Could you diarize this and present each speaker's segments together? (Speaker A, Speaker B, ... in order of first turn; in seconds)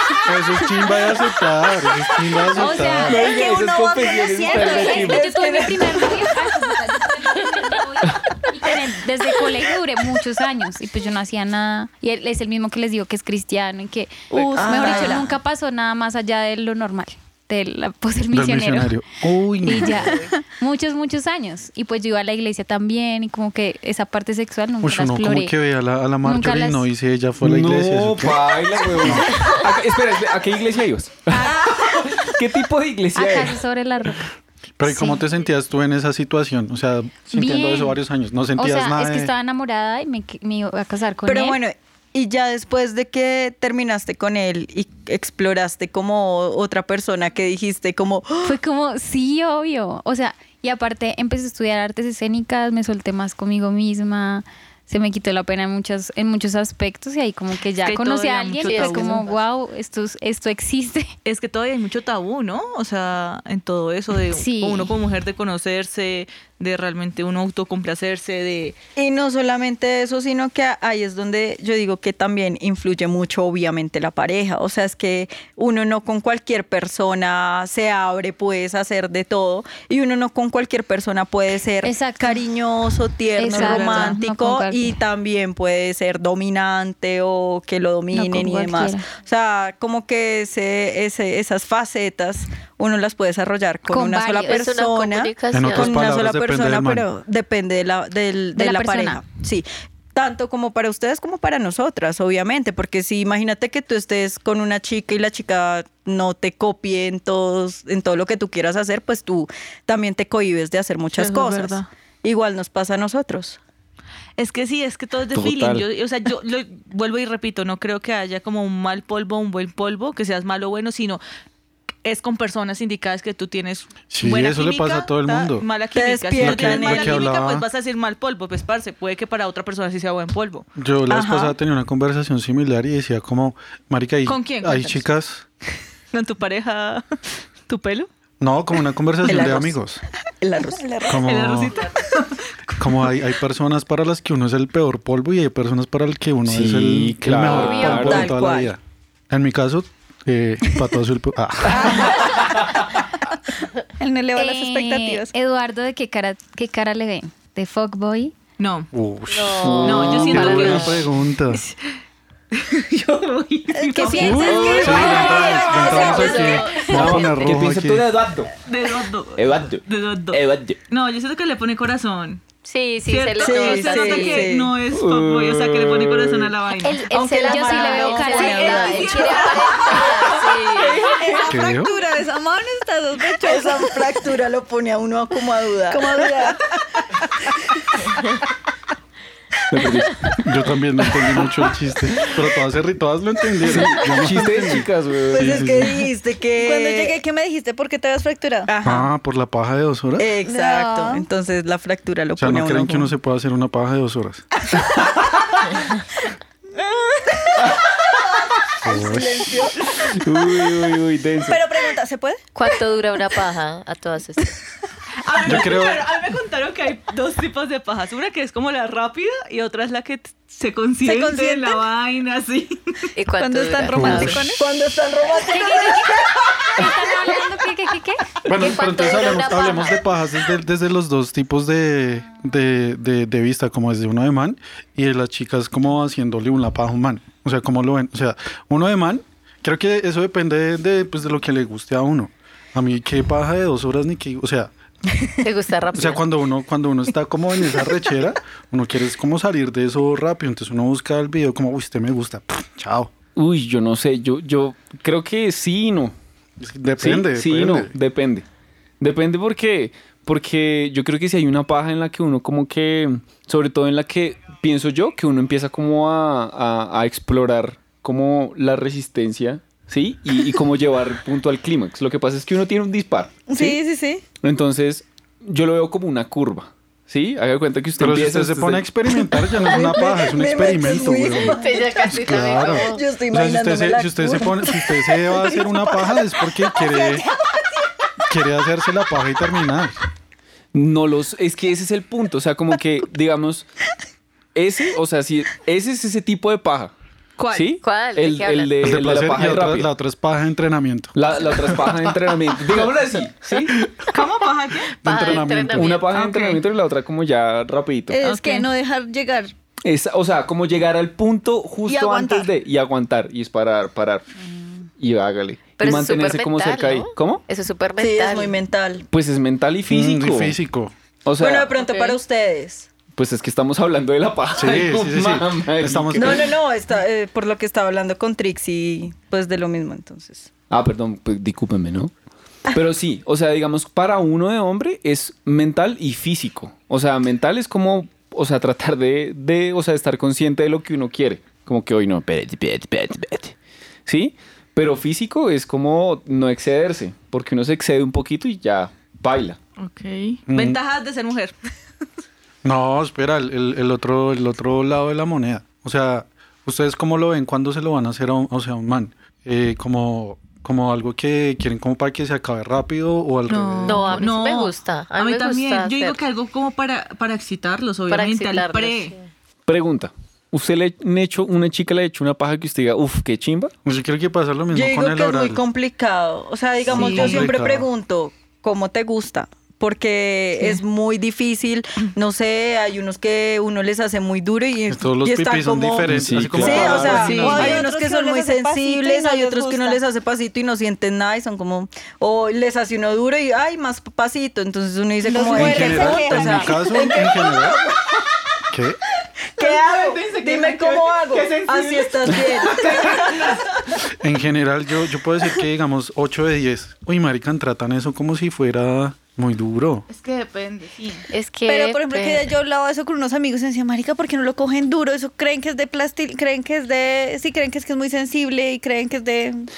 Speaker A: 0.2-3.2, 18.3-20.2, 24.8-29.3, 34.8-39.3, 95.5-97.1, 124.1-125.7, 126.4-127.7, 130.8-135.4, 138.4-140.0, 141.1-141.7, 142.8-152.2, 158.9-161.6, 164.2-168.2, 181.4-181.9, 190.4-196.0, 198.8-200.3, 202.4-204.4, 208.8-209.7, 215.4-216.1, 223.9-224.4, 228.5-244.7, 245.9-253.1, 256.6-257.9, 278.0-287.3, 288.3-290.0, 298.8-302.0, 305.0-305.9, 319.9-320.9, 324.5-326.6, 350.5-350.8, 352.6-364.2, 373.9-375.6, 376.9-377.9, 384.9-387.4, 395.4-397.8, 398.7-399.0, 404.1-410.1
Speaker B: 2.5-3.4, 4.5-19.0, 19.6-25.6, 26.2-26.9, 31.3-31.8, 33.1-34.3, 34.9-35.2, 37.3-38.0, 38.6-41.6, 48.4-61.1, 64.3-65.0, 81.8-82.4, 83.4-85.0, 88.1-89.1, 93.9-94.7, 98.6-99.2, 147.5-148.0, 154.4-158.3, 163.9-165.4, 176.8-179.4, 225.4-228.5
Speaker C: 3.0-5.2, 14.6-15.1, 140.7-141.2, 151.7-152.6, 154.0-155.3, 163.8-166.0, 181.1-184.1, 185.9-186.6, 196.5-198.7, 200.4-201.3, 211.6-212.3, 221.0-221.8, 223.4-224.6, 273.5-274.2, 279.8-281.7, 285.4-287.6, 308.1-309.5, 311.9-312.5, 387.4-390.0, 395.2-396.9, 411.6-419.7
Speaker D: 3.0-5.2, 14.3-14.6, 27.4-33.6, 115.3-115.8, 146.5-148.3, 152.2-152.8, 159.6-161.0, 166.8-168.6, 169.3-170.8, 174.9-176.5, 189.7-190.4, 193.6-196.0, 210.0-211.6, 253.4-256.1, 257.0-258.5, 259.0-273.8, 274.4-278.9, 290.7-293.7, 294.6-296.9, 297.5-299.9, 301.1-303.8, 305.2-308.2, 309.9-314.3, 315.0-317.4, 319.1-320.6, 321.2-321.7, 323.1-326.5, 330.7-332.1, 332.7-343.6, 344.1-349.6, 369.7-373.7, 386.1-387.8
Speaker E: 4.7-6.2, 14.6-15.3, 41.3-48.6, 69.0-113.6, 126.0-127.3, 131.1-131.5, 139.2-139.8, 140.4-141.2, 147.5-148.7, 173.4-174.8, 177.1-182.2, 183.4-187.2, 195.3-197.2, 198.7-199.1, 200.2-203.1, 206.7-209.8, 211.6-212.0, 224.3-226.9, 273.5-273.8, 279.4-285.2, 318.0-319.1, 321.4-322.9, 326.1-330.5, 374.7-397.8, 399.6-403.6
Speaker F: 14.8-15.1, 57.8-59.4, 61.2-68.8, 83.5-84.2, 111.1-111.9, 114.4-121.2, 122.0-130.7, 134.3-135.1, 136.1-137.1, 137.7-138.1, 141.2-142.8, 158.6-158.9, 159.8-161.1, 162.5-165.1, 165.9-166.4, 168.7-172.4, 173.1-177.0, 178.4-181.0, 215.2-223.1, 297.4-297.7, 304.1-305.0, 306.1-306.6, 308.2-308.7, 349.8-351.5, 363.5-369.2, 376.9-377.6, 387.0-387.8, 399.6-403.7, 410.1-411.3
Speaker G: 58.6-59.3, 94.5-96.2, 159.3-160.9, 164.5-167.4, 172.6-174.5, 177.3-181.2, 212.5-214.6, 223.2-224.5, 228.5-230.0, 245.4-246.2, 281.4-283.1, 297.8-298.8, 305.0-306.1, 315.8-318.6, 321.8-322.2, 363.9-366.2, 368.1-369.3, 411.3-412.5